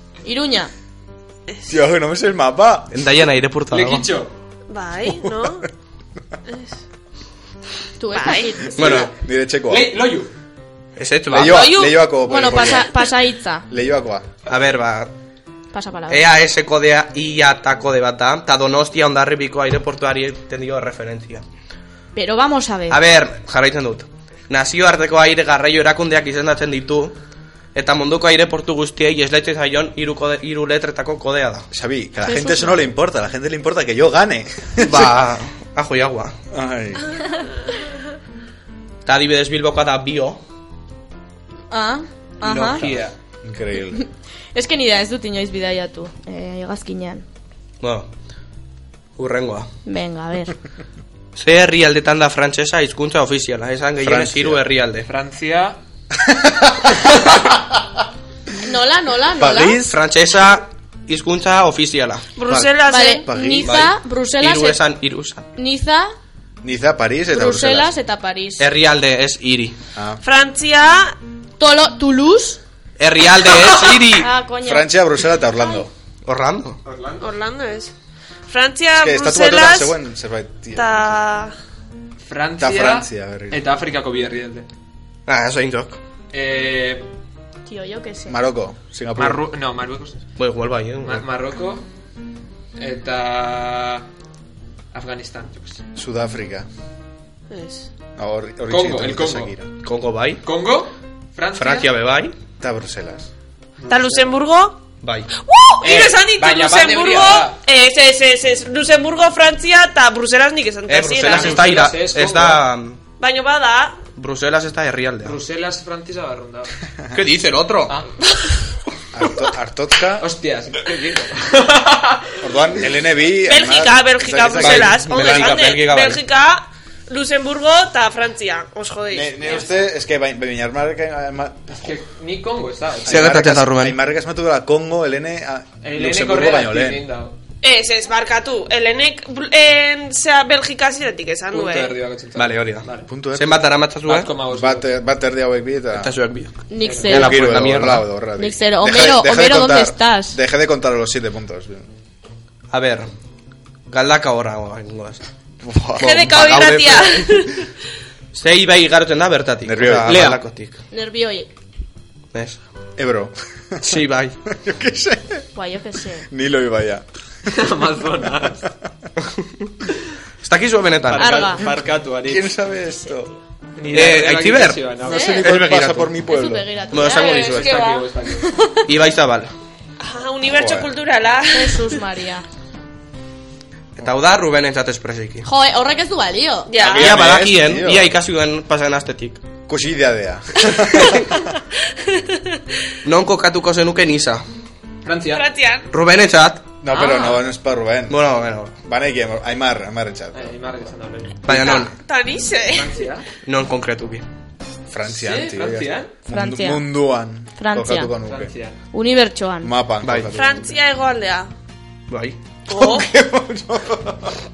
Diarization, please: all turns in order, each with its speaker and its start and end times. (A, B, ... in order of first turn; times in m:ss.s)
0:00.2-0:00.7 A
0:01.7-0:02.9 B
0:02.9-0:04.0 C
0:03.7-0:04.3 D
0:04.7-0:05.7 E
0:06.5-0:06.8 E
0:08.0-0:09.0 A
0:08.1-0:08.6 E
0:08.8-0:09.1 C
0:08.8-0:10.0 B
0:09.7-0:10.3 D
0:11.0-0:11.8 C
0:11.3-0:12.9 B
0:11.4-0:12.0 E
0:12.3-0:13.6 A
0:13.7-0:14.3 B
0:14.4-0:15.1 C
0:15.7-0:16.2 A
0:16.1-0:21.4 C
0:22.1-0:23.0 A
0:22.9-0:27.1 C
0:27.7-0:31.7 C
0:31.7-0:35.2 B
0:32.2-0:32.8 A
0:34.8-0:36.3 C
0:36.5-0:37.0 B
0:39.0-0:40.4 C
0:41.7-0:42.8 A
0:42.5-0:43.1 D
0:42.5-0:43.0 C
0:43.4-0:44.0 B
0:44.5-0:47.2 A
0:47.8-0:48.1 C
0:49.2-0:49.7 C
0:49.8-0:50.5 A
0:51.4-0:55.1 C
0:54.0-0:54.6 B
0:55.0-0:55.8 D
0:56.2-0:57.6 B
0:58.6-0:59.8 A
0:59.4-1:00.0 B
0:59.8-1:02.6 C
1:02.4-1:03.2 E
1:02.9-1:04.8 A
1:03.3-1:03.9 B
1:03.6-1:05.4 C
1:05.6-1:06.1 A
1:06.6-1:07.9 B
1:07.3-1:08.6 A
1:08.6-1:09.8 C
1:09.9-1:10.2 B
1:10.2-1:11.1 E
1:11.6-1:12.6 A
1:13.0-1:14.3 C
1:14.2-1:14.9 A
1:14.6-1:15.9 B
1:15.5-1:15.8 A
1:16.2-1:16.8 C
1:16.8-1:17.2 D
1:17.2-1:17.9 E
1:18.5-1:19.9 E
1:19.0-1:21.2 B
1:20.8-1:21.5 E
1:22.2-1:24.7 D
1:22.6-1:23.7 B
1:25.3-1:26.0 C
1:26.3-1:27.1 D
1:27.7-1:28.4 A
1:28.3-1:29.4 B
1:29.2-1:30.2 D
1:30.4-1:31.2 C
1:31.0-1:31.8 D
1:32.8-1:34.1 D
1:34.9-1:35.8 D
1:36.0-1:36.7 B
1:37.5-1:37.9 E
1:38.2-1:39.6 B
1:38.7-1:39.5 D
1:39.8-1:40.4 C
1:40.4-1:41.9 D
1:41.5-1:42.3 C
1:42.6-1:43.3 B
1:43.8-1:44.3 D
1:43.9-1:44.8 E
1:45.0-1:45.3 C
1:45.4-1:51.9 E
1:45.8-1:47.6 D
1:50.9-1:53.0 C
1:51.2-1:52.7 D
1:53.2-1:54.0 E
1:54.2-1:55.4 C
1:55.2-1:56.7 D
1:57.1-1:58.0 C
1:59.1-2:00.3 B
2:00.2-2:02.4 D
2:02.4-2:05.1 B
2:03.5-2:09.7 E
2:04.5-2:06.2 C
2:09.1-2:12.0 B
2:11.8-2:13.4 D
2:13.0-2:17.0 B
2:13.1-2:14.0 C
2:15.8-2:17.3 D
2:17.6-2:22.0 E
2:21.5-2:23.1 D
2:22.3-2:24.3 C
2:23.1-2:23.6 B
2:24.0-2:24.9 D
2:24.5-2:26.1 B
2:25.9-2:26.5 C
2:26.7-2:27.3 A
2:26.8-2:27.2 D
2:27.1-2:28.0 C
2:27.1-2:31.9 B
2:28.4-2:30.4 A
2:32.7-2:33.1 C
2:33.9-2:35.2 C
2:35.6-2:37.1 B
2:36.0-2:37.2 C
2:36.0-2:37.6 E
2:38.3-2:40.8 C
2:39.6-2:40.4 B
2:40.1-2:40.4 D
2:40.9-2:41.5 A
2:42.3-2:42.6 C
2:43.0-2:45.5 B
2:43.8-2:44.4 C
2:45.5-2:46.3 A
2:46.3-2:47.0 B
2:47.5-2:48.6 D
2:47.8-2:48.5 B
2:50.4-2:51.5 C
2:51.1-2:52.6 D
2:51.2-2:51.6 A
2:52.2-2:53.3 B
2:53.8-2:55.4 D
2:53.9-2:56.1 C
2:55.0-2:56.7 B
2:55.0-2:55.4 A
2:56.3-2:57.6 A
2:56.9-2:57.9 C
2:57.0-2:58.1 E
2:57.5-2:58.5 D
2:58.5-2:58.8 A
2:58.8-2:59.5 C
3:00.0-3:01.9 E
3:00.5-3:00.9 B
3:01.5-3:02.4 A
3:04.0-3:05.4 C
3:05.4-3:06.7 A
3:06.7-3:07.1 E
3:06.8-3:08.2 B
3:06.8-3:09.4 C
3:09.7-3:11.5 B
3:13.0-3:14.4 C
3:15.0-3:15.5 D
3:15.3-3:15.9 E
3:15.9-3:16.6 C
3:16.8-3:18.2 B
3:16.9-3:17.4 D
3:18.1-3:18.7 C
3:18.8-3:20.6 B
3:20.3-3:21.5 D
3:21.4-3:21.9 C
3:21.5-3:23.0 E
3:22.7-3:23.3 D
3:23.4-3:24.2 C
3:24.9-3:28.5 B
3:25.1-3:26.1 D
3:26.3-3:26.8 A
3:27.6-3:28.1 A
3:28.2-3:28.8 D
3:28.9-3:29.7 A
3:29.6-3:30.8 B
3:30.0-3:30.3 C
3:30.3-3:31.5 E
3:32.1-3:32.4 C
3:32.7-3:33.1 E
3:32.7-3:34.3 B